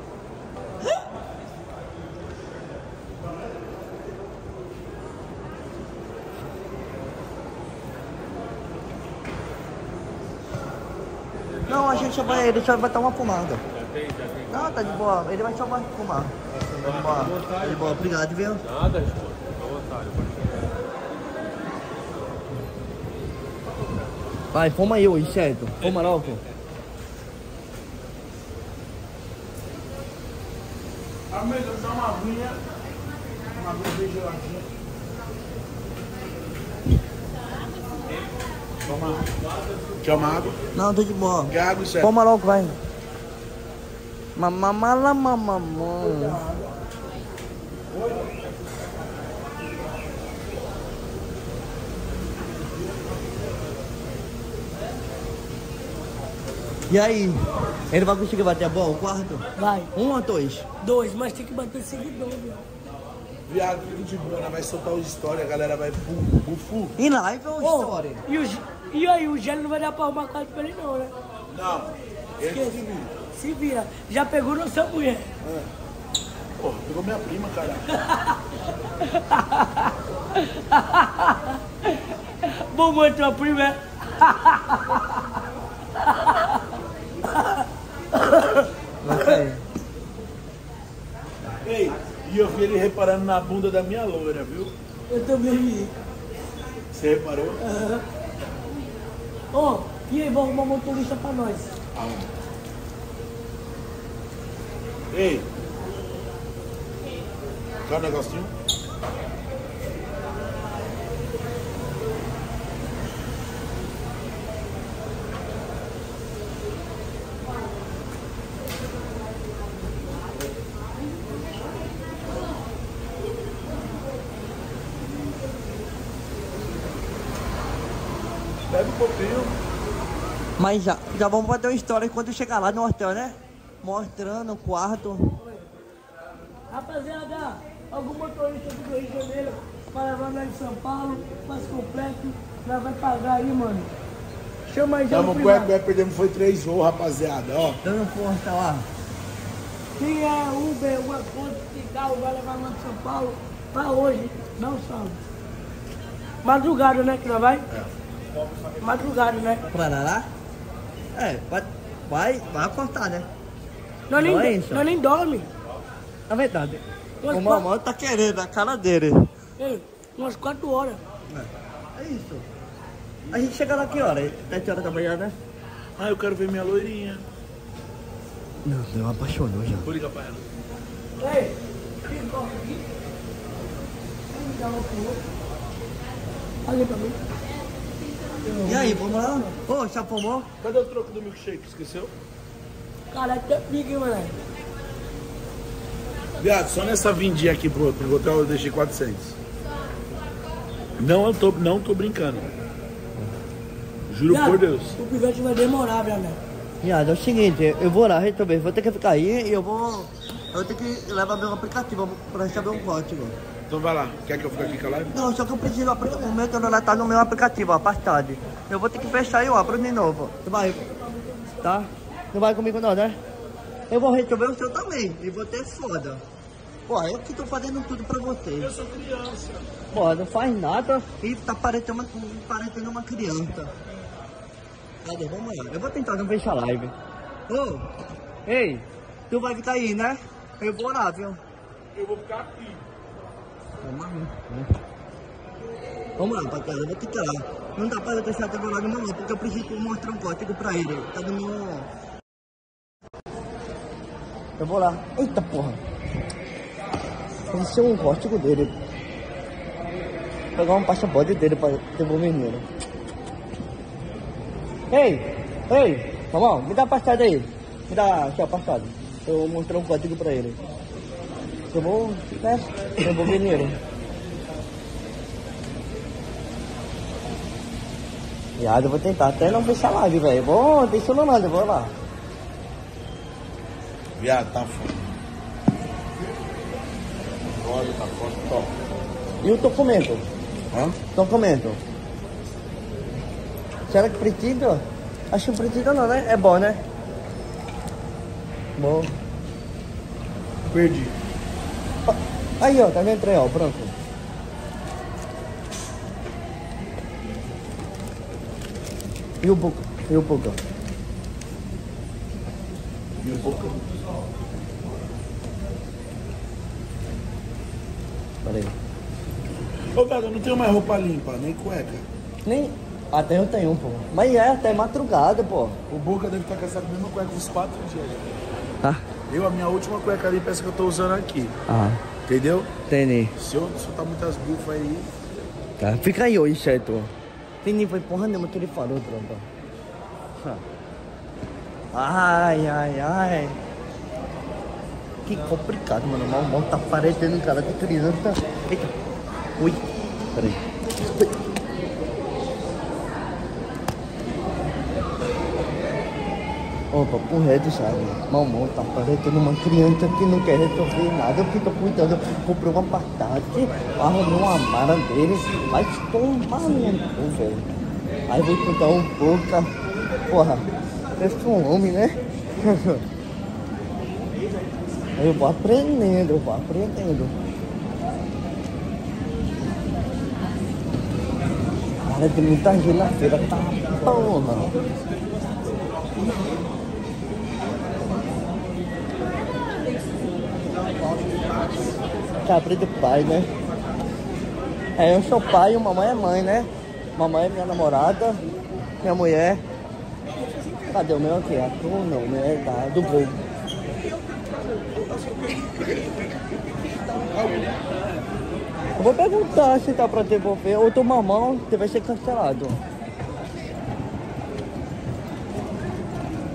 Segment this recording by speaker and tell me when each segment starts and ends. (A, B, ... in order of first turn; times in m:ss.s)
0:11.7-0:13.6 A
0:11.7-0:12.3 B
0:13.8-0:14.8 B
0:14.5-0:18.6 A
0:16.6-0:18.1 B
0:18.7-0:20.6 B
0:24.5-0:26.4 A
0:25.9-0:26.3 B
0:31.3-0:32.6 C
0:33.6-0:34.7 C
0:38.8-0:39.3 C
0:40.0-0:40.6 C
0:40.8-0:42.8 A
0:41.5-0:42.1 C
0:44.4-0:46.4 A
0:46.1-0:46.5 C
0:56.9-0:59.4 A
0:59.6-0:59.9 D
1:00.0-1:00.7 A
1:00.8-1:02.6 D
1:03.5-1:06.9 C
1:07.0-1:08.2 A
1:07.6-1:11.1 D
1:11.5-1:13.1 C
1:12.5-1:15.3 D
1:16.6-1:17.9 C
1:18.0-1:18.4 D
1:19.0-1:21.6 D
1:22.4-1:25.2 D
1:26.0-1:26.6 D
1:27.3-1:27.6 D
1:28.2-1:29.4 D
1:29.0-1:29.6 A
1:31.6-1:34.7 C
1:35.1-1:35.9 D
1:36.9-1:37.6 C
1:37.6-1:38.0 D
1:39.5-1:41.7 D
1:42.0-1:42.3 C
1:45.1-1:45.5 C
1:47.8-1:48.5 C
2:08.7-2:09.6 C
2:10.6-2:15.4 A
2:16.7-2:23.9 D
2:24.7-2:25.7 D
2:25.1-2:27.8 C
2:27.8-2:28.9 A
2:30.0-2:35.2 D
2:36.4-2:37.6 D
2:38.8-2:39.6 D
2:39.7-2:40.3 A
2:41.2-2:43.3 A
2:44.1-2:45.5 D
2:44.1-2:44.9 A
2:46.3-2:49.3 A
2:47.2-2:47.6 D
2:49.6-2:51.0 D
2:51.3-2:52.5 A
2:53.3-2:55.3 A
2:56.0-2:57.2 C
2:58.6-2:59.9 A
2:59.8-3:00.4 C
3:01.2-3:02.8 D
3:04.3-3:05.2 D
3:06.7-3:07.2 D
3:08.5-3:08.9 D
3:08.6-3:10.5 A
3:10.6-3:12.1 C
3:13.1-3:14.3 D
3:16.4-3:19.4 C
3:21.0-3:22.5 C
3:24.1-3:24.9 C
3:24.3-3:26.4 D
3:26.8-3:33.4 A
3:33.7-3:35.2 C
3:35.1-3:40.8 A
3:41.1-3:41.6 D
3:41.6-3:43.2 A
3:43.9-3:46.2 A
3:46.9-3:48.7 A
3:48.6-3:49.7 C
3:49.9-3:53.7 A
3:55.0-3:57.0 A
3:57.5-3:57.9 A
3:58.5-4:01.4 A
4:02.0-4:02.8 C
4:03.8-4:04.8 A
4:06.2-4:11.9 A
4:14.6-4:15.8 A
4:17.5-4:18.8 A
4:20.6-4:22.7 A
4:24.9-4:30.6 A
4:31.7-4:33.8 A
4:38.6-4:41.9 A
4:44.2-4:45.1 C
4:47.5-4:48.7 C
4:49.4-4:50.2 A
4:50.7-4:51.0 C
4:51.2-4:51.8 A
4:53.9-4:56.8 A
4:58.8-4:59.2 A
5:00.7-5:01.2 C
5:02.1-5:03.9 A
5:09.4-5:10.6 A
5:13.2-5:13.8 C
5:18.4-5:18.7 A
5:20.0-5:22.1 C
5:22.5-5:25.8 A
5:25.9-5:28.4 C
5:29.3-5:31.6 C
5:31.7-5:32.0 A
5:32.3-5:32.7 C
5:32.9-5:33.3 A
5:33.4-5:35.1 C
5:35.8-5:37.1 A
5:37.6-5:39.5 A
5:40.4-5:40.6 A
5:41.9-5:43.6 A
5:45.3-5:48.9 A
5:49.6-5:49.8 A
5:50.3-5:51.3 A
5:56.9-6:07.7 A
6:08.3-6:09.7 A
6:10.3-6:13.0 A
6:15.2-6:17.3 A
6:22.0-6:24.8 A
6:32.4-6:33.5 A
6:35.0-6:38.4 A
6:39.0-6:39.6 A
6:40.9-6:43.4 A
6:47.4-6:47.6 C
6:49.0-6:52.8 A